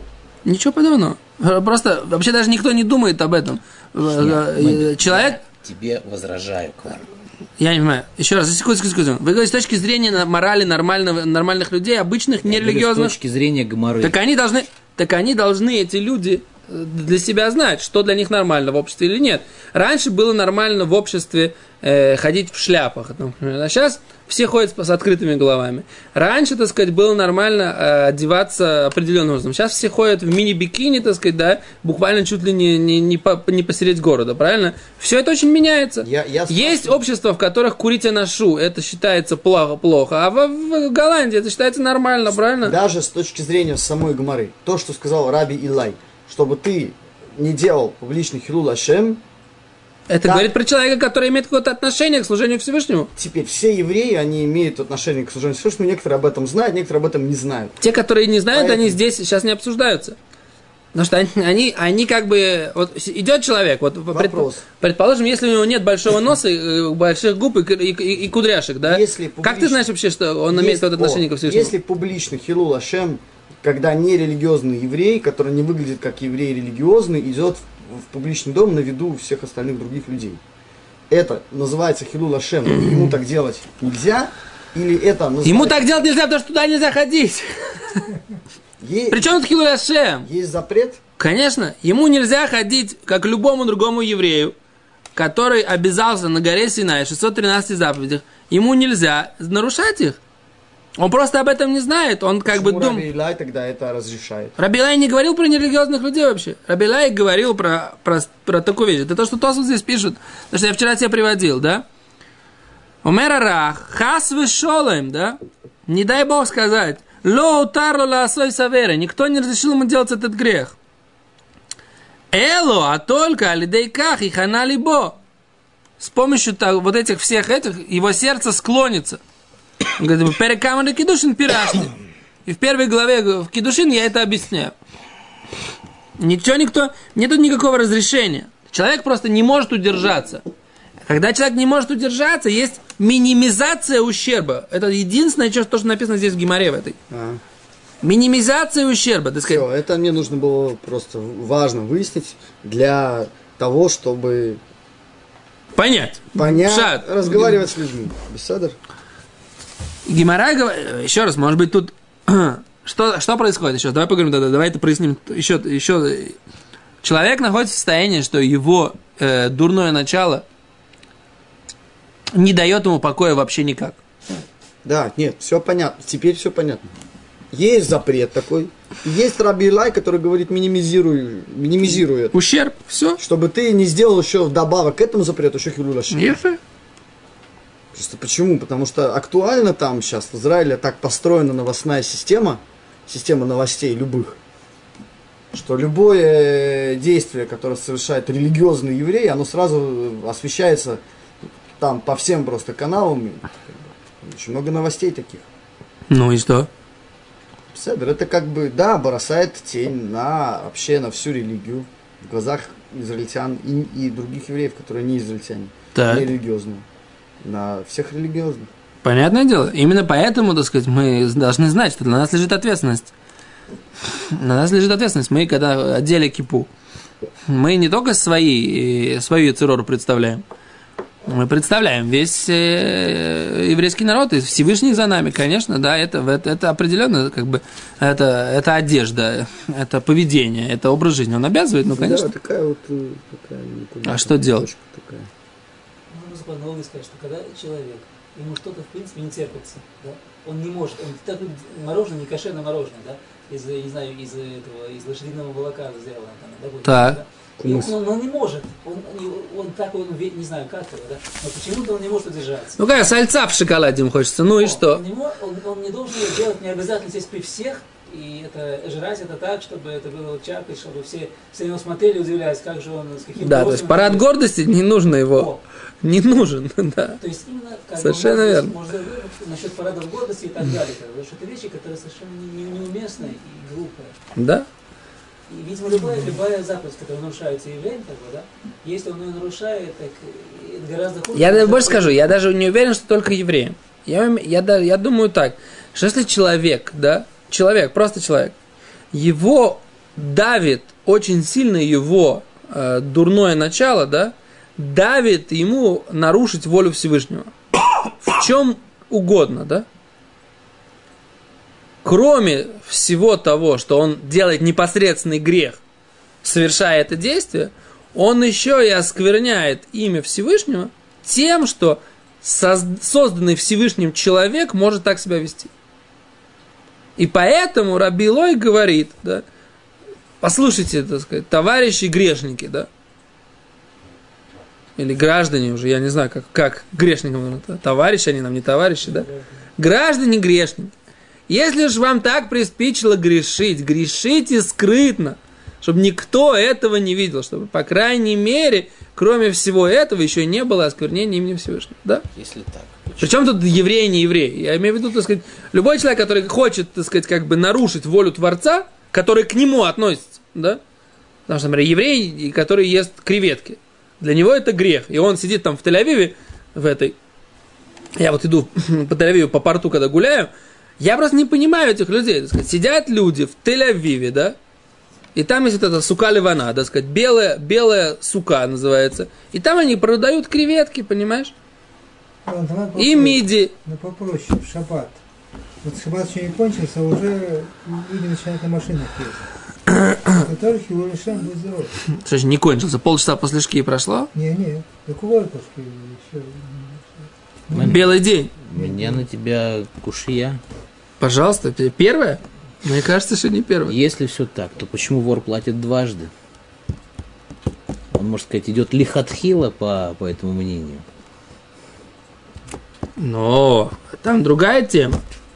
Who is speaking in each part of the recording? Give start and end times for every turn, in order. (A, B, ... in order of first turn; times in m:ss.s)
0:00.4-0:05.4 A
0:04.1-0:07.0 B
0:07.6-0:13.1 A
0:12.4-0:14.2 B
0:14.0-0:42.8 A
0:36.0-0:37.0 C
0:42.6-0:49.2 C
0:50.1-0:53.1 A
0:50.2-0:50.5 C
0:53.2-0:57.8 C
0:57.8-1:00.2 A
0:58.5-0:59.0 C
1:00.9-1:11.7 A
1:04.1-1:04.6 C
1:08.8-1:09.9 C
1:10.5-1:20.4 C
1:21.1-1:26.1 C
1:22.8-1:23.1 A
1:25.4-1:28.1 A
1:28.8-1:29.4 C
1:29.1-1:30.3 A
1:30.2-1:31.0 C
1:31.2-1:34.5 A
1:35.1-1:40.2 A
1:41.0-1:43.0 A
1:42.5-1:44.6 C
1:44.6-1:51.8 A
1:53.0-2:00.8 A
2:02.3-2:05.2 A
2:06.0-2:09.2 A
2:10.0-2:11.9 A
2:12.4-2:14.7 A
2:16.2-2:20.4 A
2:21.0-2:27.0 A
2:27.1-2:27.4 C
2:28.0-2:29.6 A
2:29.4-2:34.6 C
2:35.7-2:37.5 A
2:36.3-2:38.8 C
2:40.0-2:46.4 A
2:47.0-2:50.4 A
2:52.3-2:54.0 A
2:54.8-2:56.9 C
2:57.5-3:02.3 C
3:02.3-3:03.2 A
3:03.2-3:06.2 C
3:06.1-3:06.6 A
3:07.9-3:14.4 C
3:15.5-3:21.0 C
3:21.8-3:25.4 C
3:26.1-3:26.7 A
3:27.7-3:36.8 C
3:35.9-3:36.2 A
3:37.4-3:38.7 C
3:39.0-3:43.1 A
3:44.1-3:46.7 A
3:47.5-3:50.4 A
3:51.2-4:02.3 A
4:01.9-4:05.3 C
4:04.0-4:04.7 A
4:06.1-4:22.8 D
4:16.8-4:17.2 A
4:17.6-4:17.9 C
4:22.8-4:25.0 A
4:24.6-4:34.3 D
4:33.4-4:35.5 A
4:35.2-4:35.6 D
4:36.0-4:37.2 A
4:37.2-4:44.1 D
4:38.0-4:38.7 A
4:44.4-4:44.6 A
4:45.5-4:52.3 D
4:51.3-4:58.5 A
4:59.1-5:07.5 A
5:08.2-5:09.8 A
5:12.0-5:15.8 A
5:16.4-5:25.7 A
5:27.2-5:29.4 A
5:30.4-5:32.9 A
5:35.0-5:40.9 A
5:39.0-5:39.4 D
5:41.5-5:52.2 A
5:52.3-5:53.3 B
5:53.2-6:00.8 A
6:01.5-6:07.2 A
6:08.2-6:14.6 A
6:15.3-6:21.5 A
6:22.4-6:25.2 E
6:23.0-6:23.7 A
6:25.8-6:29.5 E
6:29.9-6:30.3 A
6:30.2-6:32.0 E
6:32.1-6:34.3 A
6:34.3-6:38.1 E
6:37.7-6:40.6 B
6:37.8-6:38.5 A
6:38.7-6:39.2 E
6:41.2-6:43.9 A
6:43.9-6:46.3 B
6:48.1-6:51.0 B
6:53.2-6:55.2 A